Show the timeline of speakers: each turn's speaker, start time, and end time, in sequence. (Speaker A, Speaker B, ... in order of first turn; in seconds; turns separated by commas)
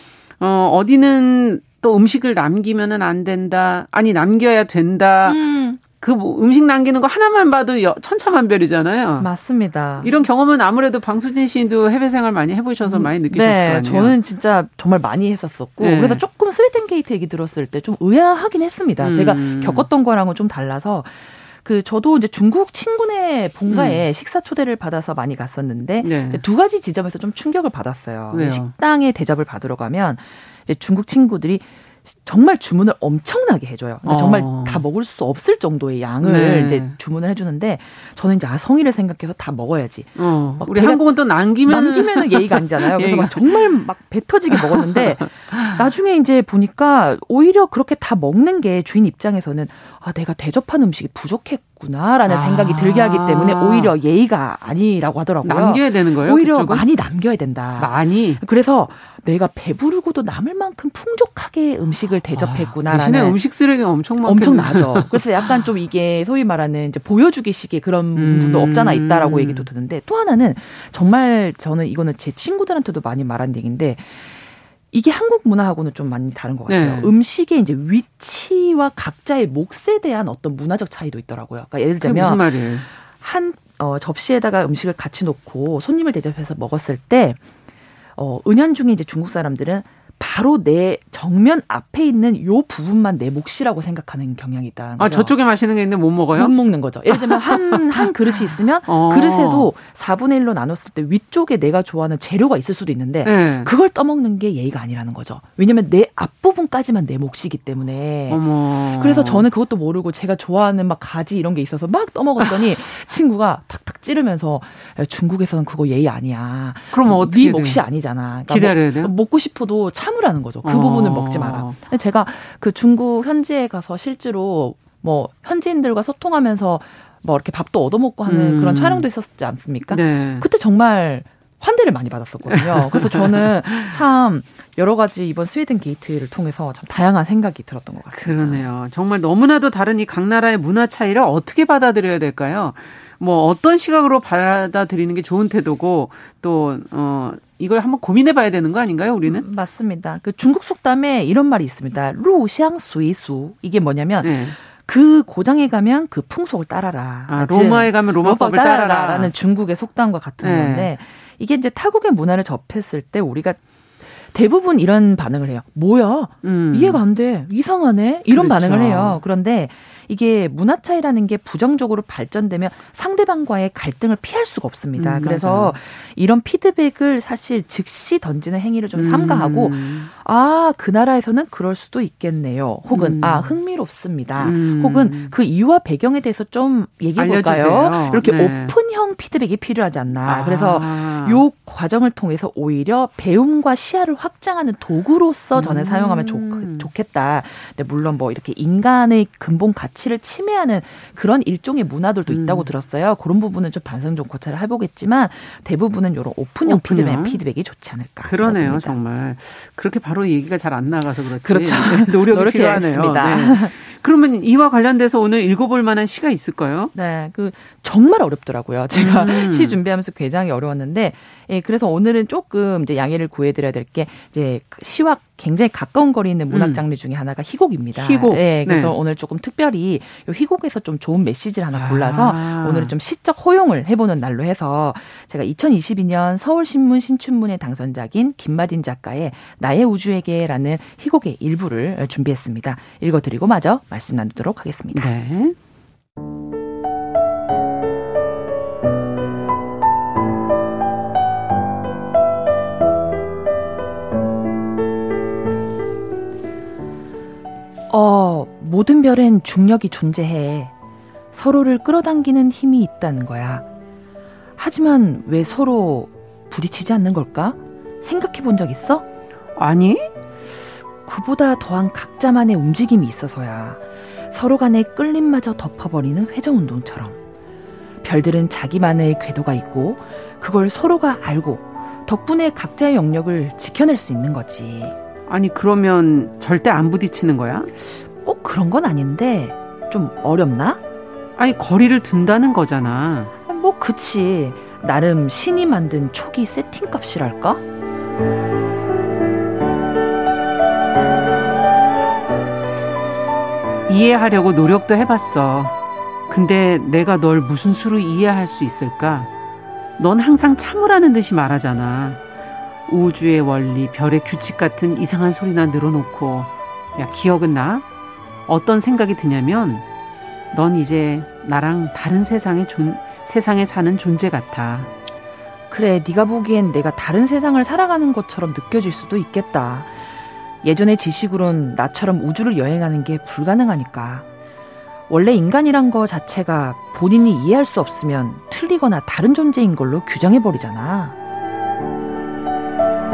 Speaker A: 0.4-9.3, Speaker B: 5.3-5.8, Speaker B: 9.2-10.1, Speaker A: 10.0-14.2, Speaker B: 12.8-63.4, Speaker A: 15.8-16.2, Speaker A: 19.0-19.9, Speaker A: 23.7-24.1, Speaker A: 26.0-26.4, Speaker A: 28.3-28.7, Speaker A: 34.0-34.9, Speaker A: 36.2-37.0, Speaker A: 40.2-43.6, Speaker A: 44.5-45.9, Speaker A: 52.3-54.0, Speaker A: 55.4-56.9, Speaker A: 57.8-58.4, Speaker A: 62.3-65.7, Speaker B: 64.2-74.4, Speaker A: 68.2-69.7, Speaker B: 74.9-87.4, Speaker A: 76.7-77.1, Speaker A: 82.0-82.9, Speaker B: 88.2-95.3, Speaker A: 95.0-96.5, Speaker B: 96.3-138.6, Speaker A: 97.1-99.7, Speaker A: 103.2-103.7, Speaker A: 108.3-109.5, Speaker A: 112.4-112.7, Speaker A: 116.9-117.9, Speaker A: 118.5-119.1, Speaker A: 120.6-121.8, Speaker A: 128.3-129.1, Speaker A: 129.9-130.5, Speaker A: 132.5-134.0, Speaker A: 138.1-149.5, Speaker B: 149.3-163.6, Speaker A: 154.2-154.6, Speaker A: 157.3-159.3, Speaker A: 160.4-160.9, Speaker B: 164.3-209.0, Speaker A: 166.4-167.0, Speaker A: 168.3-169.2, Speaker A: 175.0-175.8, Speaker A: 178.9-180.1, Speaker A: 182.9-183.6, Speaker A: 184.4-185.3, Speaker A: 187.2-188.8, Speaker A: 190.2-191.4, Speaker A: 195.6-196.9, Speaker A: 202.3-202.7, Speaker A: 206.7-207.4, Speaker A: 208.2-216.9, Speaker B: 211.4-213.7, Speaker B: 216.9-245.1, Speaker A: 218.9-219.8, Speaker A: 226.5-226.8, Speaker A: 227.9-229.0, Speaker A: 231.7-232.9, Speaker A: 244.9-245.6, Speaker B: 257.9-260.7, Speaker B: 261.3-263.6, Speaker B: 264.6-269.1, Speaker A: 269.6-270.1, Speaker B: 271.1-277.2, Speaker B: 278.0-284.9, Speaker A: 285.3-287.7, Speaker B: 288.2-290.8, Speaker A: 291.4-293.3, Speaker B: 293.5-297.6, Speaker A: 303.9-305.8, Speaker A: 306.3-309.3, Speaker A: 310.0-312.2, Speaker A: 312.9-317.9, Speaker A: 318.5-319.9, Speaker A: 320.5-324.9, Speaker B: 325.7-330.0, Speaker B: 330.6-334.3, Speaker B: 335.1-341.1